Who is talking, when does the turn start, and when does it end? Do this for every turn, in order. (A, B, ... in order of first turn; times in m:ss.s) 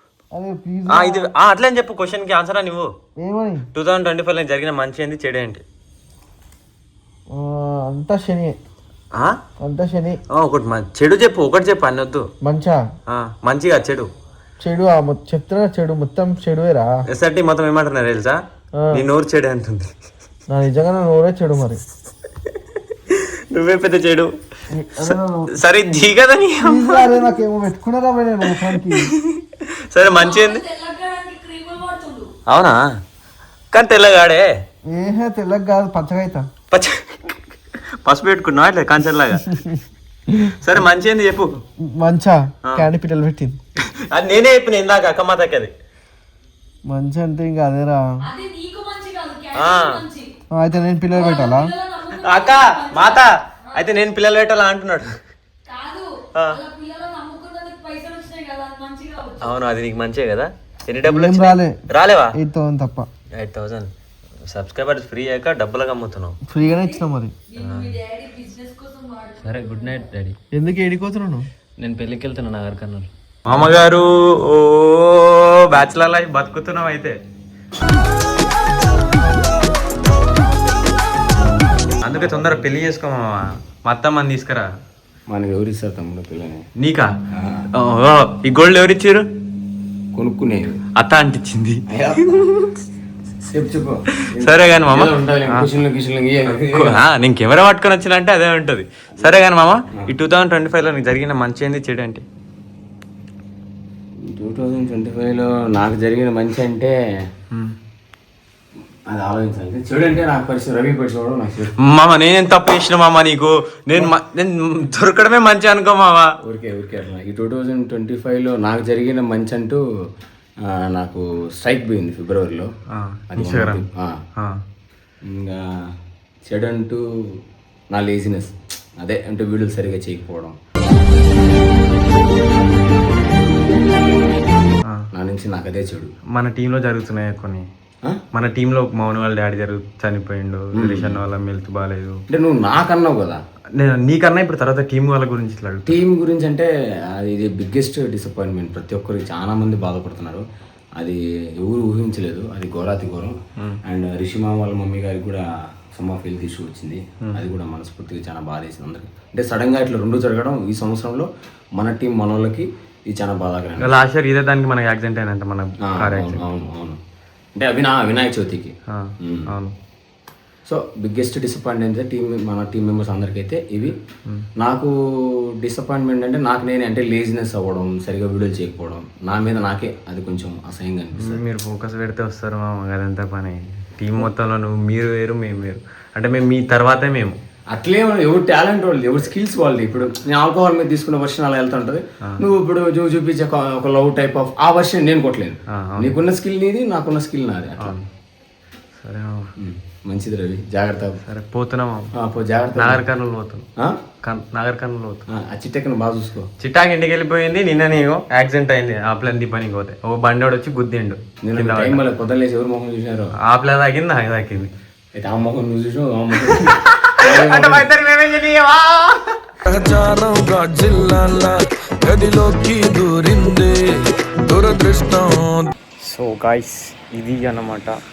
0:00.3-0:01.2 A
0:00.9-0:02.9 B
0:03.2-0:03.6 A
0:03.7-0:05.6 B
0:07.3-0:08.6 A
0:09.1-0:09.4 B
0:09.6-0:10.2 A
0:10.3-0:12.3 B
0:12.4-0:12.8 A
0:13.1-0:14.1 B
0:14.6-0:16.9 A
0:17.1-0:18.4 B
0:18.9-0:19.9 B
0:20.5-0:21.8 A
0:23.1-0:24.3 B
0:24.8-0:25.5 A
0:25.0-0:27.3 B
0:26.7-0:29.0 A
0:28.5-0:30.6 B
0:30.1-0:32.3 C
0:32.5-0:32.9 B
0:33.7-0:34.6 B
0:34.9-0:36.5 A
0:36.7-0:37.4 B
0:38.0-0:39.5 B
0:40.4-0:41.5 B
0:41.9-0:43.6 A
0:42.6-0:42.9 B
0:43.9-0:45.7 B
0:46.9-0:48.3 A
0:48.2-0:50.3 C
0:49.5-0:50.0 B
0:50.5-0:51.7 A
0:51.1-0:53.8 C
0:52.1-0:55.2 B
0:55.7-0:59.5 C
0:56.3-0:56.6 B
0:59.4-1:02.4 B
1:01.1-1:01.8 A
1:02.4-1:03.1 A
1:03.3-1:03.9 B
1:04.4-1:06.4 B
1:06.5-1:07.3 A
1:06.6-1:10.1 C
1:07.6-1:08.0 B
1:09.4-1:10.4 B
1:10.5-1:11.5 A
1:11.8-1:17.2 B
1:22.0-1:24.7 B
1:22.1-1:22.6 D
1:25.3-1:26.6 D
1:26.8-1:27.1 B
1:27.4-1:27.7 D
1:27.7-1:29.2 B
1:30.1-1:30.8 D
1:31.0-1:32.7 B
1:31.9-1:32.4 D
1:33.5-1:37.0 D
1:34.2-1:35.7 B
1:36.5-1:42.2 B
1:39.2-1:39.4 D
1:44.2-1:46.9 D
1:49.1-1:51.7 D
1:51.8-1:56.3 B
1:56.4-1:59.8 D
2:00.7-2:02.7 D
2:02.9-2:03.8 B
2:03.3-2:04.2 D
2:05.2-2:05.9 D
2:06.5-2:10.6 D
2:15.1-2:16.1 D
2:16.3-2:17.6 B
2:18.3-2:22.2 B
2:20.8-2:21.2 D
2:22.3-2:23.4 D
2:23.8-2:26.0 B
2:25.9-2:30.4 D
2:31.0-2:43.9 D
2:43.8-2:46.4 B
2:45.8-2:47.0 D
2:47.6-2:48.7 D
2:48.9-2:49.7 B
2:49.2-2:49.5 D
2:50.6-2:54.0 D
2:54.6-3:01.4 D
3:01.2-3:07.4 B
3:07.7-3:17.9 D
3:15.7-3:16.2 B
3:17.8-3:18.1 B
3:19.0-3:19.5 B
3:19.6-3:21.2 D
3:21.2-3:22.1 B
3:22.2-3:23.0 D
3:22.8-3:23.7 B
3:24.2-3:25.2 B
3:25.3-3:26.5 D
3:26.6-3:32.0 B
3:31.4-3:33.3 D
3:33.5-3:34.7 B
3:35.2-3:37.9 D
3:36.5-3:39.4 B
3:39.7-3:45.7 E
3:46.0-3:48.0 B